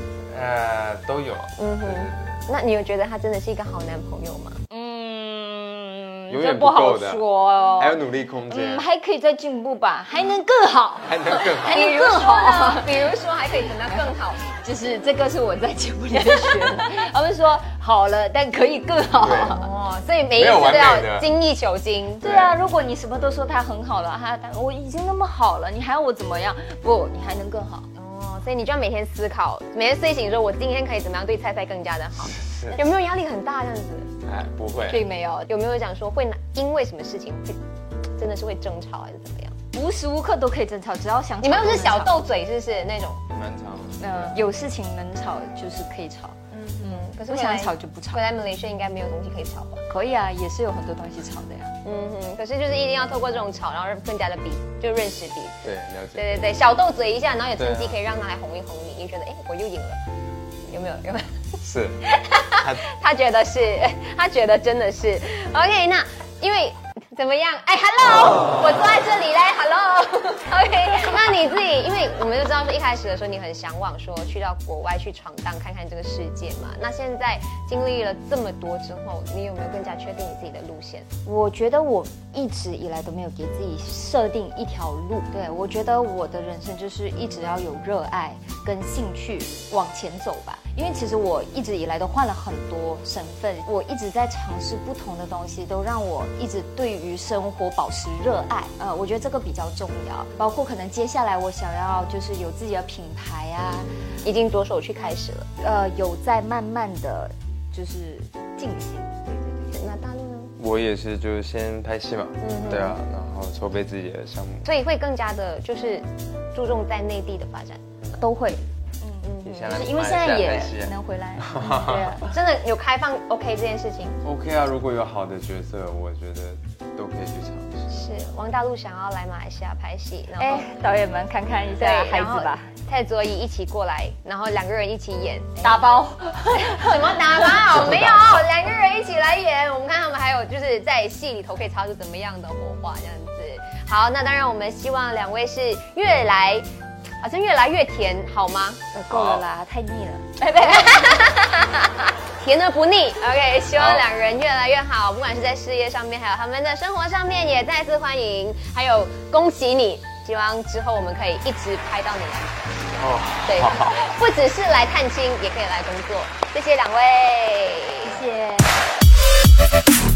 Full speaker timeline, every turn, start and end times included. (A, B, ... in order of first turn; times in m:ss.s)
0:00.2-0:02.4 A
0:01.6-0:04.6 B
0:04.7-0:19.7 C
0:06.3-0:08.8 A
0:11.0-0:11.8 A
0:11.6-0:14.5 B
0:16.3-0:16.7 B
0:19.2-0:19.6 A
0:19.4-0:22.2 B
0:20.4-0:21.3 A
0:22.2-0:27.9 C
0:22.2-0:22.6 A
0:27.9-0:34.1 B
0:32.3-0:32.8 A
0:34.2-0:35.0 A
0:34.8-0:35.5 C
0:35.4-0:37.6 B
0:38.2-0:39.6 B
0:39.7-0:42.3 C
0:41.4-0:43.2 B
0:43.3-0:44.4 A
0:44.0-0:48.2 C
0:46.5-0:49.8 B
0:49.9-0:51.7 C
0:51.8-1:00.0 B
0:55.6-0:56.5 A
0:57.6-0:58.0 A
1:00.7-1:01.4 B
1:01.6-1:02.0 A
1:02.1-1:21.1 B
1:02.6-1:02.8 A
1:21.2-1:43.9 C
1:44.2-1:45.5 B
1:45.6-1:49.8 C
1:49.7-1:50.5 B
1:50.6-1:54.7 A
1:52.4-1:53.0 B
1:54.6-1:57.8 B
1:58.2-2:02.3 C
1:59.2-1:59.8 B
1:59.4-2:02.3 A
2:02.2-2:04.2 B
2:04.2-2:07.9 A
2:07.9-2:10.7 B
2:10.4-2:12.7 C
2:11.8-2:15.8 B
2:15.6-2:17.6 C
2:16.5-2:26.7 B
2:17.7-2:18.4 A
2:27.2-2:28.8 B
2:28.9-2:30.3 C
2:29.1-2:29.5 A
2:30.4-2:48.2 B
2:33.7-2:34.0 A
2:43.0-2:44.0 A
2:48.0-2:48.8 C